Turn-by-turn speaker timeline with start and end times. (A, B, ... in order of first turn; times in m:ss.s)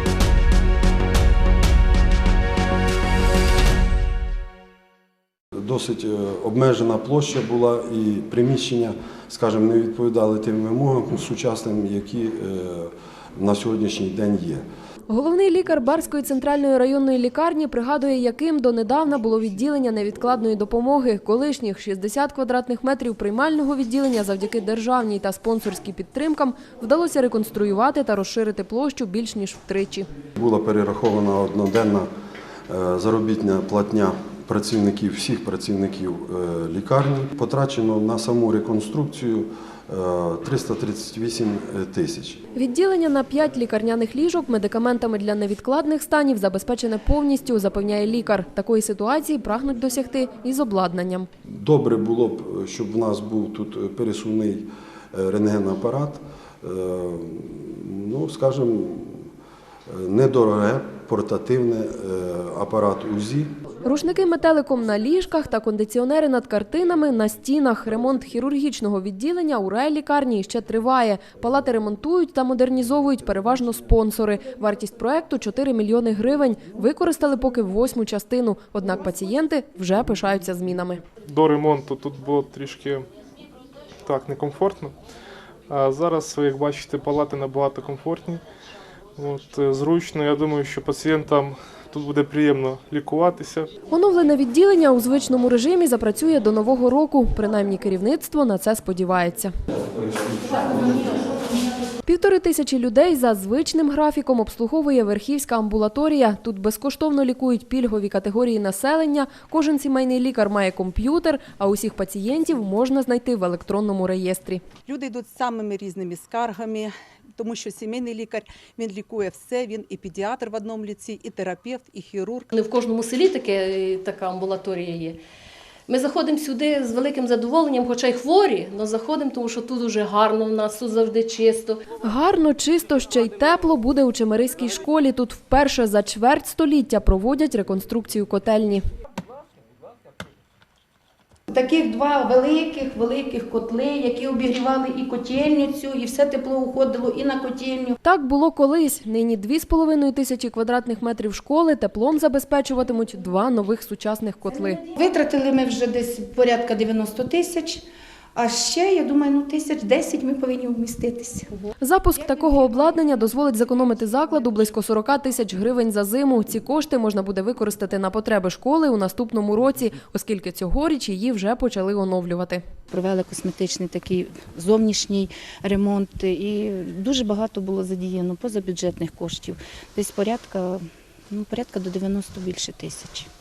0:05.6-0:14.6 A
0:15.1-0:30.1 B
0:30.4-0:32.1 A
0:32.7-0:42.4 A
0:42.5-0:51.3 B
0:51.5-0:59.3 A
0:59.9-1:03.5 A
1:03.8-1:21.0 B
1:21.2-1:23.1 C
1:24.0-1:24.9 C
1:25.7-1:28.4 C
1:29.2-1:33.7 C
1:33.9-1:39.5 B
1:40.5-1:41.4 D
1:42.0-1:54.6 B
1:54.9-2:02.5 E
2:02.5-2:05.2 F
2:05.9-2:11.8 F
2:12.0-2:18.8 B
2:21.5-2:27.9 D
2:28.0-2:34.8 B
2:34.9-2:37.8 D
2:38.4-2:41.6 D
2:41.8-2:52.6 B
2:52.9-3:03.3 G